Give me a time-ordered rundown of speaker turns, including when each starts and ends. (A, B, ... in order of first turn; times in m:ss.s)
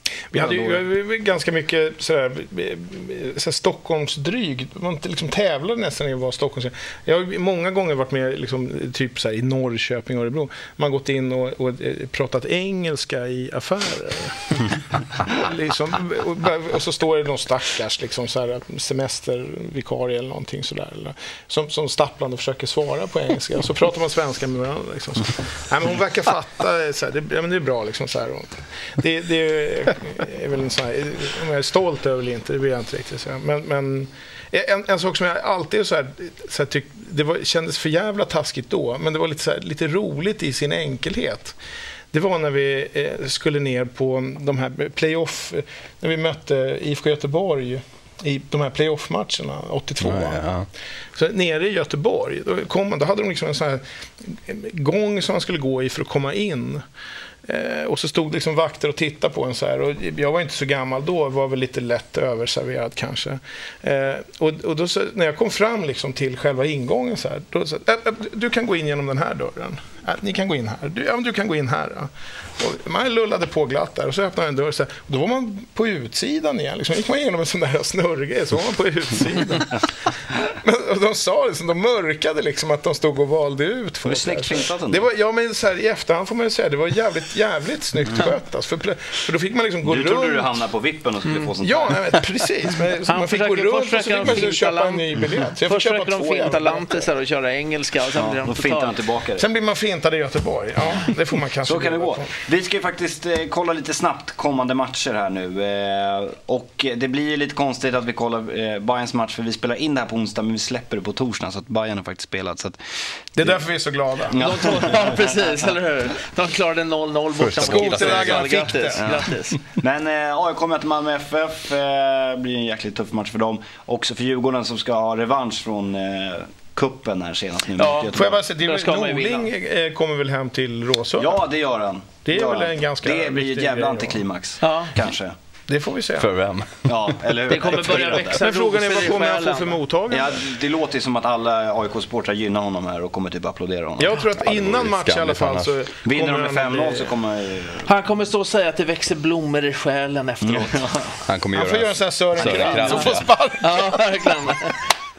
0:00.3-0:41.6 A
0:00.4-0:00.8 B
0:42.1-0:50.5 A
0:50.0-0:50.7 C
0:51.2-0:56.8 A
0:57.5-1:30.5 A
1:24.0-1:25.0 B
1:29.8-1:32.3 B
1:31.6-1:37.0 A
1:33.1-1:39.0 D
1:38.2-1:39.4 B
1:39.4-1:42.4 A
1:41.6-1:52.8 B
1:53.3-1:53.6 B
1:53.4-1:55.0 A
1:54.3-1:55.2 B
1:54.4-1:59.6 D
1:57.4-1:58.6 C
1:57.6-1:59.1 A
1:59.0-2:08.4 B
2:07.8-2:09.5 D
2:08.1-2:11.4 A
2:11.2-2:15.3 B
2:12.2-2:14.2 A
2:14.6-2:14.9 D
2:15.7-2:16.3 A
2:16.2-2:17.2 C
2:16.9-2:18.4 B
2:17.5-2:19.8 D
2:17.6-2:20.4 A
2:20.1-2:24.1 B
2:24.0-2:27.2 A
2:24.3-2:25.7 C
2:26.0-2:27.9 B
2:27.8-2:31.1 D
2:30.4-2:31.1 B
2:31.2-2:33.3 C
2:31.5-2:34.2 A
2:32.4-2:32.8 B
2:32.5-2:34.8 D